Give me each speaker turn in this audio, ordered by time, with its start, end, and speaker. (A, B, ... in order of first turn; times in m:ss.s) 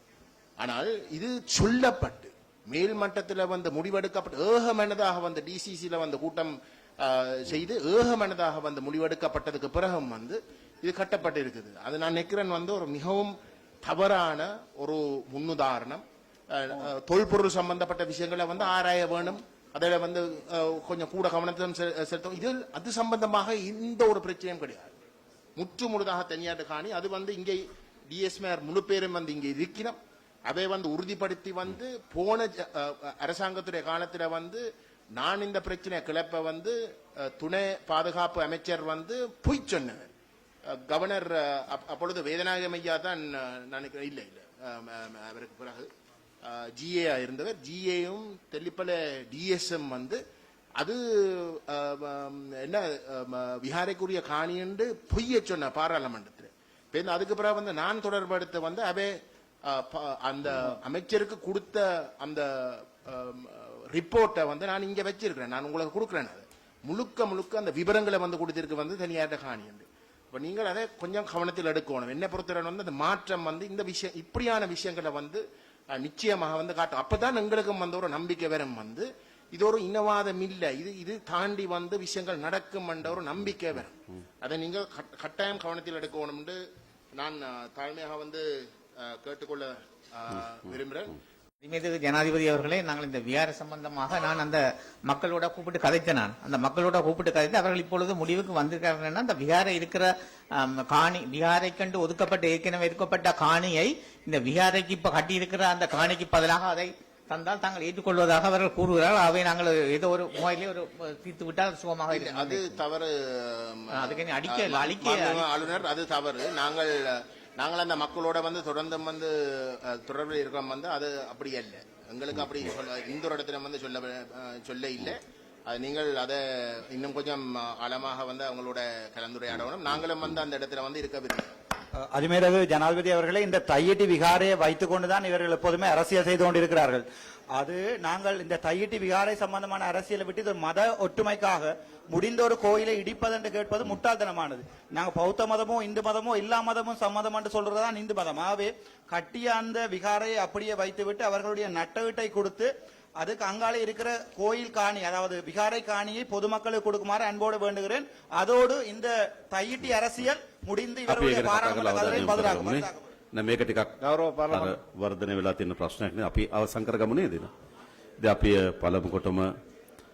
0:00.6-0:24.9 A
0:25.6-0:34.6 A
0:35.2-0:40.1 A
0:40.7-0:45.9 A
0:46.4-0:50.2 A
0:50.8-0:59.1 A
0:59.6-1:15.4 A
1:15.9-1:26.6 A
1:27.1-1:28.4 A
1:29.0-1:31.2 A
1:31.6-1:52.8 B
1:52.1-2:11.5 A
1:53.9-1:55.5 B
2:12.0-2:43.1 C
2:41.1-2:44.0 D
2:44.0-2:44.7 C
2:44.5-2:47.5 D
2:48.2-2:49.5 D